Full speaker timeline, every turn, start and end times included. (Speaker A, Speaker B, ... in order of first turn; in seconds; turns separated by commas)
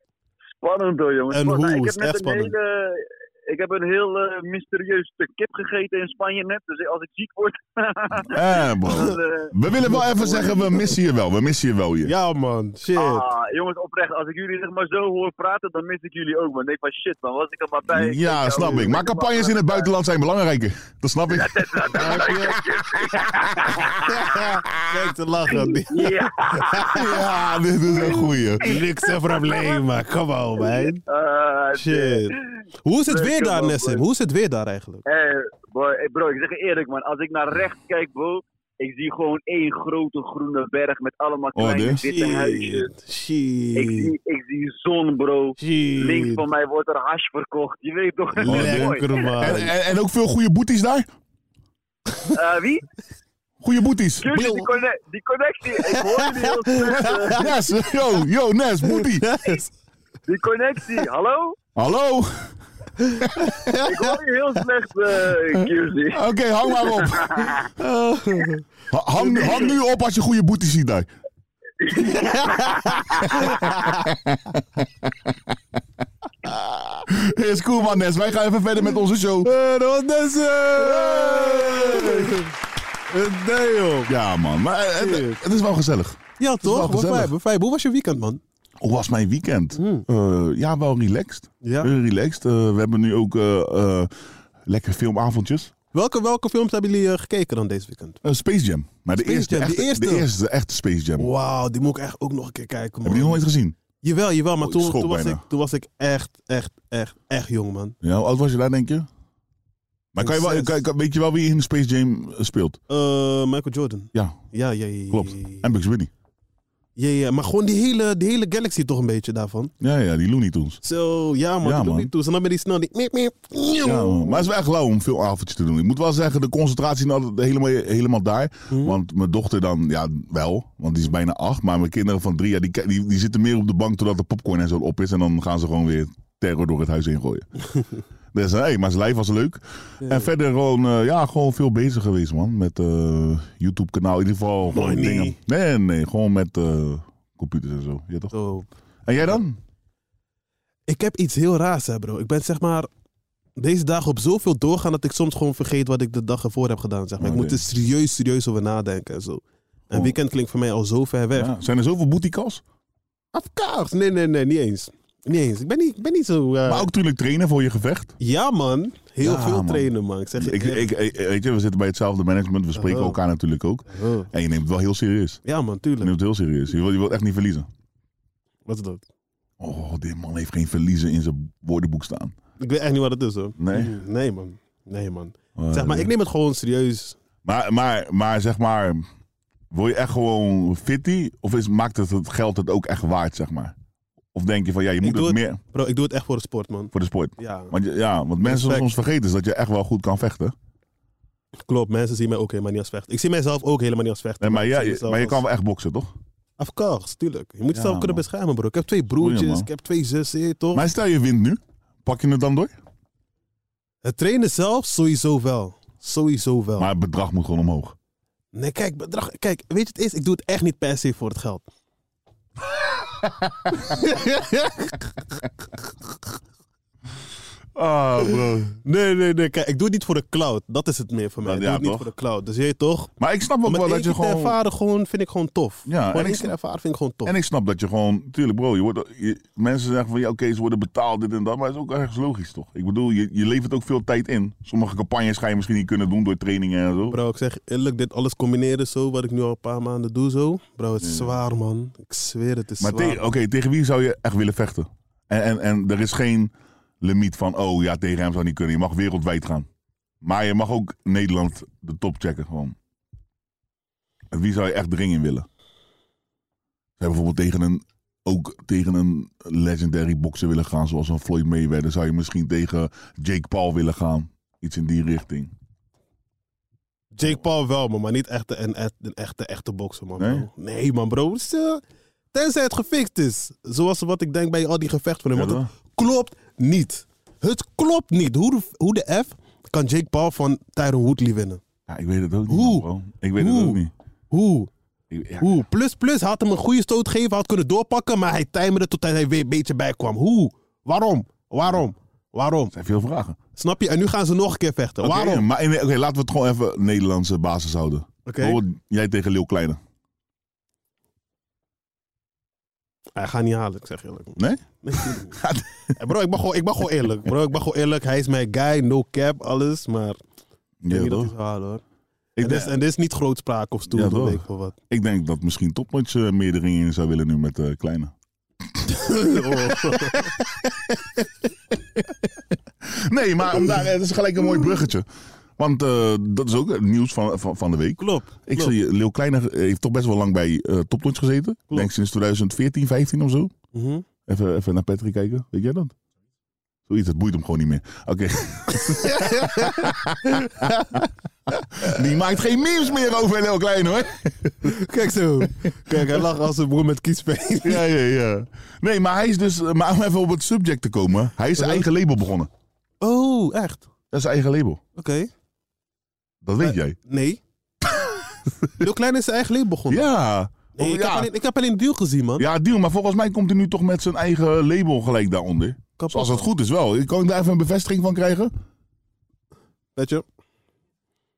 Speaker A: 0.6-9.5, Speaker B: 1.3-2.5, Speaker C: 8.2-12.1, Speaker B: 9.8-10.2, Speaker A: 10.1-10.8, Speaker B: 12.1-13.3, Speaker A: 13.0-19.9, Speaker C: 17.9-23.8, Speaker B: 18.6-18.9, Speaker A: 21.3-24.1, Speaker B: 21.9-22.6, Speaker B: 24.0-27.1, Speaker A: 25.9-27.2, Speaker C: 26.9-28.6, Speaker A: 28.1-29.8, Speaker B: 28.6-31.0, Speaker A: 30.6-32.4, Speaker B: 31.7-35.0, Speaker A: 33.1-34.0, Speaker A: 35.1-42.9, Speaker C: 41.5-42.0, Speaker B: 42.0-44.1, Speaker A: 43.8-49.3, Speaker B: 45.6-46.4, Speaker B: 48.4-49.7, Speaker C: 48.5-51.1, Speaker A: 52.3-52.9, Speaker C: 53.6-54.3, Speaker A: 54.2-57.5, Speaker B: 54.3-54.7, Speaker B: 55.8-57.5, Speaker C: 57.3-59.5, Speaker B: 58.9-59.7, Speaker A: 60.3-61.6, Speaker C: 61.8-62.5, Speaker B: 63.0-64.2, Speaker C: 63.2-63.5, Speaker A: 63.8-66.2, Speaker C: 65.3-67.6, Speaker A: 66.8-67.6, Speaker B: 67.8-68.6, Speaker C: 68.9-71.1, Speaker A: 71.8-73.5, Speaker B: 72.0-74.0, Speaker C: 73.3-75.6, Speaker C: 76.4-79.5, Speaker B: 79.4-82.5, Speaker C: 80.7-82.4, Speaker B: 83.1-84.1, Speaker C: 84.1-87.3, Speaker B: 85.0-85.4, Speaker B: 86.4-88.4, Speaker C: 88.8-94.1, Speaker B: 89.8-90.0, Speaker B: 91.6-91.9, Speaker C: 94.7-95.7, Speaker B: 95.9-98.2, Speaker C: 98.2-101.3, Speaker B: 99.2-100.3, Speaker B: 101.2-103.5, Speaker C: 103.0-103.8, Speaker B: 104.0-108.0, Speaker C: 104.6-105.4, Speaker C: 108.0-109.1, Speaker C: 110.1-112.8, Speaker B: 110.2-110.8, Speaker B: 112.9-115.7, Speaker C: 114.1-114.4, Speaker C: 115.1-116.1, Speaker B: 117.0-119.7, Speaker C: 119.8-120.8, Speaker B: 120.8-124.5, Speaker C: 121.6-122.1, Speaker C: 123.8-137.5, Speaker B: 128.7-129.0, Speaker C: 138.3-148.3, Speaker B: 140.0-140.3, Speaker B: 144.7-145.4, Speaker B: 148.3-148.7, Speaker C: 149.1-149.6, Speaker B: 150.9-152.9, Speaker B: 153.6-161.5, Speaker C: 157.2-157.6, Speaker C: 159.9-160.2, Speaker C: 161.3-162.6, Speaker B: 163.3-166.9, Speaker C: 166.7-168.2, Speaker B: 168.2-170.9, Speaker C: 169.2-175.4, Speaker B: 172.8-173.2, Speaker B: 173.9-174.3, Speaker B: 175.4-176.1, Speaker C: 176.0-177.7, Speaker B: 178.7-179.1, Speaker C: 179.6-182.3, Speaker B: 182.6-187.2, Speaker C: 183.6-184.0, Speaker C: 185.6-186.1, Speaker C: 187.4-189.1, Speaker C: 189.7-193.8, Speaker C: 194.3-195.6, Speaker B: 195.0-197.8, Speaker C: 196.9-200.6, Speaker B: 198.4-198.9, Speaker B: 201.7-205.4, Speaker C: 204.4-206.1, Speaker B: 206.6-210.9, Speaker C: 207.7-208.2, Speaker C: 209.2-209.7, Speaker C: 210.7-212.8, Speaker B: 214.0-216.9, Speaker C: 216.8-218.0, Speaker B: 218.5-221.7, Speaker C: 223.2-223.8, Speaker B: 223.7-225.0, Speaker C: 227.8-228.8, Speaker B: 228.8-233.1, Speaker C: 231.4-232.1, Speaker C: 233.2-234.6, Speaker B: 233.7-237.3, Speaker C: 235.9-236.5, Speaker C: 237.2-247.2, Speaker B: 247.1-253.2, Speaker C: 251.0-251.3, Speaker C: 252.8-259.7, Speaker C: 260.2-262.8, Speaker C: 264.3-265.5, Speaker C: 267.0-275.5, Speaker B: 277.1-281.8, Speaker C: 280.2-280.5, Speaker B: 282.3-291.6, Speaker C: 285.3-285.7, Speaker C: 291.9-293.9, Speaker B: 292.5-293.8, Speaker B: 294.3-294.7, Speaker C: 295.1-295.6, Speaker B: 295.4-302.7, Speaker C: 302.7-303.4, Speaker B: 303.6-305.5, Speaker C: 305.0-309.8, Speaker B: 308.3-308.6, Speaker B: 313.2-315.4, Speaker C: 314.4-316.0, Speaker B: 316.0-320.2, Speaker C: 320.8-321.3, Speaker B: 320.9-321.8, Speaker C: 322.4-322.8, Speaker B: 322.4-324.8, Speaker C: 323.9-328.1, Speaker C: 328.8-331.0, Speaker B: 328.9-330.4, Speaker C: 332.8-335.1, Speaker C: 335.6-343.5, Speaker B: 338.0-338.8, Speaker B: 343.7-344.1, Speaker C: 344.3-345.9, Speaker C: 346.9-351.0, Speaker B: 348.8-351.1, Speaker B: 351.6-352.0, Speaker C: 351.8-354.8, Speaker B: 354.6-357.9, Speaker C: 355.4-356.2, Speaker C: 357.6-362.5, Speaker B: 361.6-361.9, Speaker B: 363.0-363.9, Speaker C: 364.1-364.8, Speaker B: 365.0-365.3, Speaker C: 366.4-367.0, Speaker B: 366.6-367.4, Speaker B: 368.7-370.1, Speaker C: 369.9-371.3, Speaker B: 370.8-372.5, Speaker C: 372.4-378.5, Speaker B: 376.0-376.5, Speaker B: 380.0-380.2